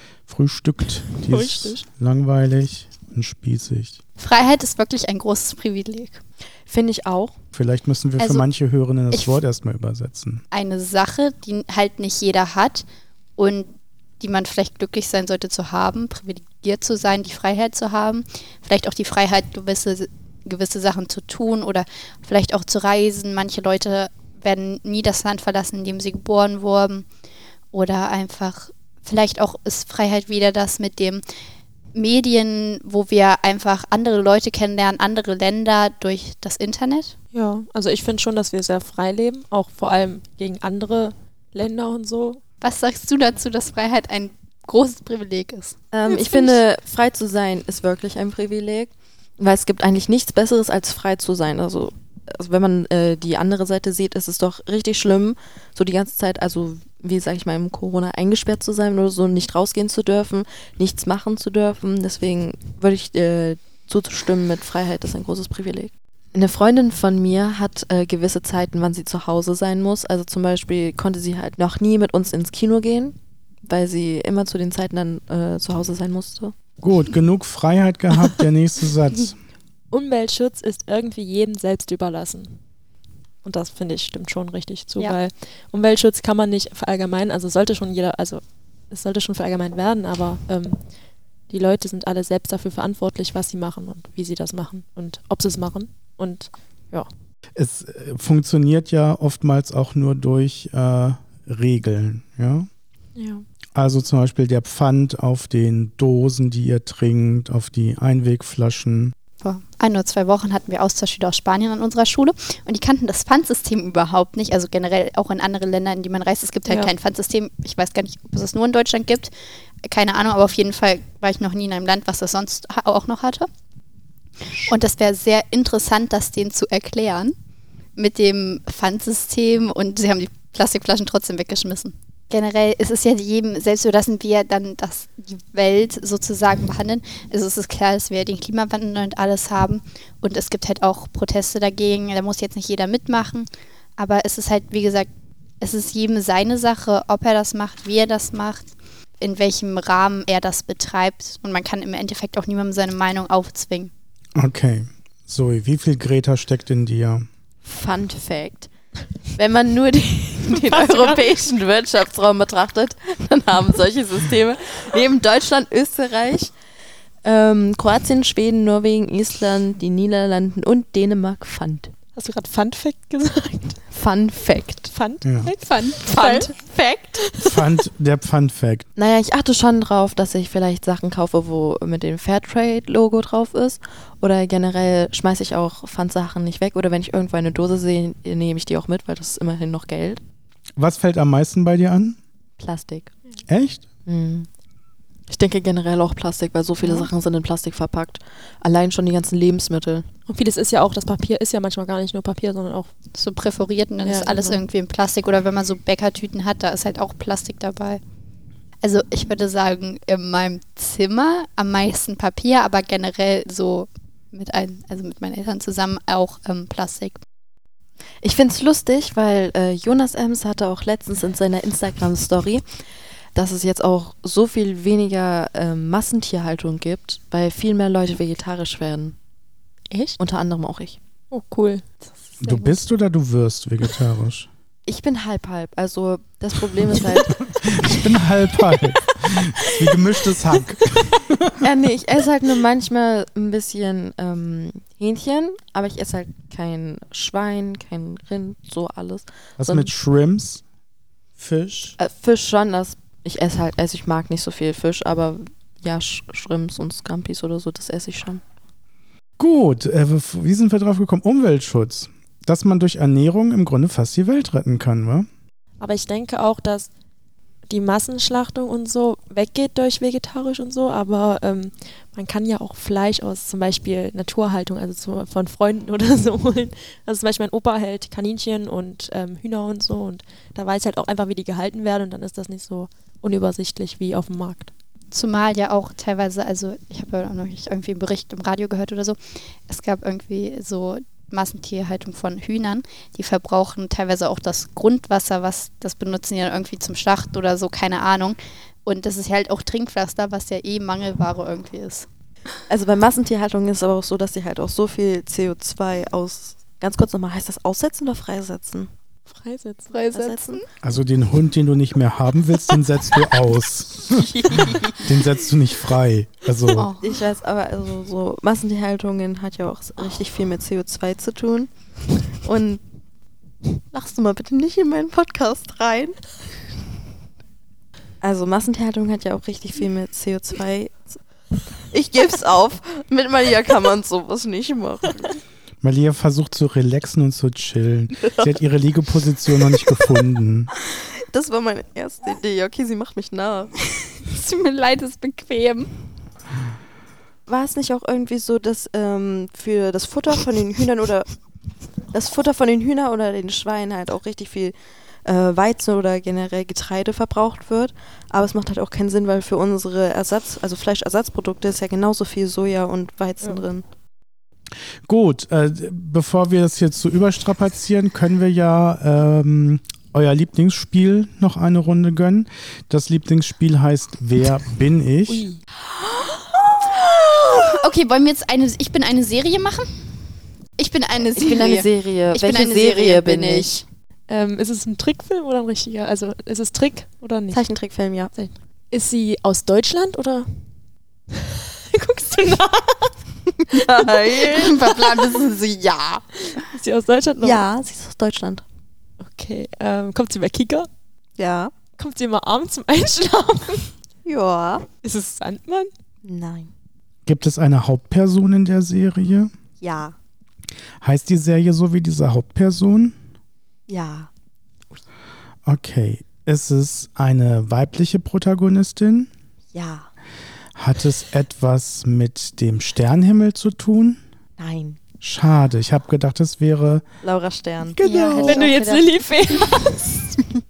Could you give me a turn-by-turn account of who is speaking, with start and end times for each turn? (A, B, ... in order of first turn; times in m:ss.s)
0:00.3-0:04.0 A
0:01.3-0:01.8 B
0:04.2-0:06.2 C
0:06.7-0:07.4 D
0:07.5-0:10.4 A
0:08.2-0:08.5 C
0:09.1-0:09.4 C
0:10.5-0:12.8 C
0:13.4-0:27.1 C
0:27.7-0:31.2 C
0:31.9-0:37.2 C
0:37.3-0:42.4 B
0:42.6-0:45.8 C
0:45.9-1:16.5 D
0:46.1-0:46.6 B
1:16.8-1:19.4 A
1:19.9-1:22.6 B
1:23.4-1:30.8 B
1:31.5-1:37.1 B
1:37.6-1:42.7 A
1:43.2-1:43.4 B
1:43.8-1:49.2 A
1:49.4-1:59.3 C
1:59.8-2:03.5 C
2:04.6-2:07.4 C
2:08.0-2:25.1 C
2:25.6-2:28.7 C
2:29.2-2:33.9 C
2:34.4-2:37.3 A
2:37.6-2:38.7 D
2:39.4-2:46.5 D
2:40.5-2:41.2 B
2:47.2-2:51.9 D
2:52.2-2:53.8 B
2:53.9-2:54.9 D
2:54.9-2:56.6 B
2:55.2-2:55.5 A
2:55.6-2:56.5 C
2:56.1-2:57.3 D
2:57.2-2:57.6 B
2:57.4-2:58.9 A
2:59.0-3:10.2 D
3:10.8-3:12.2 A
3:12.6-3:13.1 D
3:13.5-3:13.8 A
3:14.1-3:14.5 D
3:15.3-3:20.1 D
3:16.8-3:17.1 B
3:20.3-3:22.9 B
3:23.1-3:28.0 C
3:24.0-3:24.6 B
3:28.8-3:37.2 C
3:38.2-3:42.6 D
3:43.4-3:49.2 D
3:49.9-3:50.2 B
3:50.2-3:51.0 D
3:51.3-3:52.0 B
3:52.4-3:54.5 A
3:52.5-3:52.7 C
3:54.9-3:58.0 D
3:57.6-4:01.6 A
4:01.5-4:09.9 D
4:09.6-4:10.6 A
4:11.4-4:12.0 A
4:12.0-4:18.4 D
4:19.4-4:25.3 A
4:25.8-4:26.9 B
4:27.7-4:44.7 B
4:45.1-5:02.1 C
5:02.7-5:08.9 D
5:09.3-5:10.0 B
5:09.9-5:10.7 C
5:10.1-5:10.6 D
5:10.8-5:16.9 A
5:14.1-5:15.1 D
5:16.8-5:17.1 C
5:17.0-5:21.7 D
5:22.3-5:22.8 D
5:23.7-5:26.2 D
5:28.2-5:31.2 D
5:31.9-5:35.4 D
5:35.8-5:40.7 A
5:40.9-5:43.7 D
5:44.0-5:45.9 C
5:47.5-5:51.3 D
5:52.1-6:03.8 D
6:05.1-6:15.4 A
6:15.3-6:15.6 B
6:16.8-6:17.8 D
6:17.6-6:19.9 C
6:20.8-6:23.8 C
6:21.2-6:23.7 D
6:24.3-6:27.7 B
6:27.5-6:28.3 D
6:28.4-6:30.6 B
6:31.3-6:33.2 B
6:33.6-6:35.0 D
6:34.3-6:36.6 C
6:36.5-6:37.6 B
6:37.4-6:38.6 D
6:39.2-6:40.9 B
6:41.4-6:41.7 D
6:42.0-6:43.9 B
6:44.2-6:44.9 D
6:45.0-6:45.9 B
6:46.2-6:46.7 D
6:47.3-6:49.5 A
6:49.8-6:50.2 D
6:51.0-6:53.2 A
6:53.9-6:54.3 D
6:55.7-6:59.3 A
6:59.7-7:00.1 D
7:00.8-7:04.2 A
7:04.6-7:05.0 D
7:05.2-7:07.1 A
7:07.2-7:08.8 D
7:07.9-7:08.7 A
7:08.0-7:09.1 C
7:08.4-7:10.4 B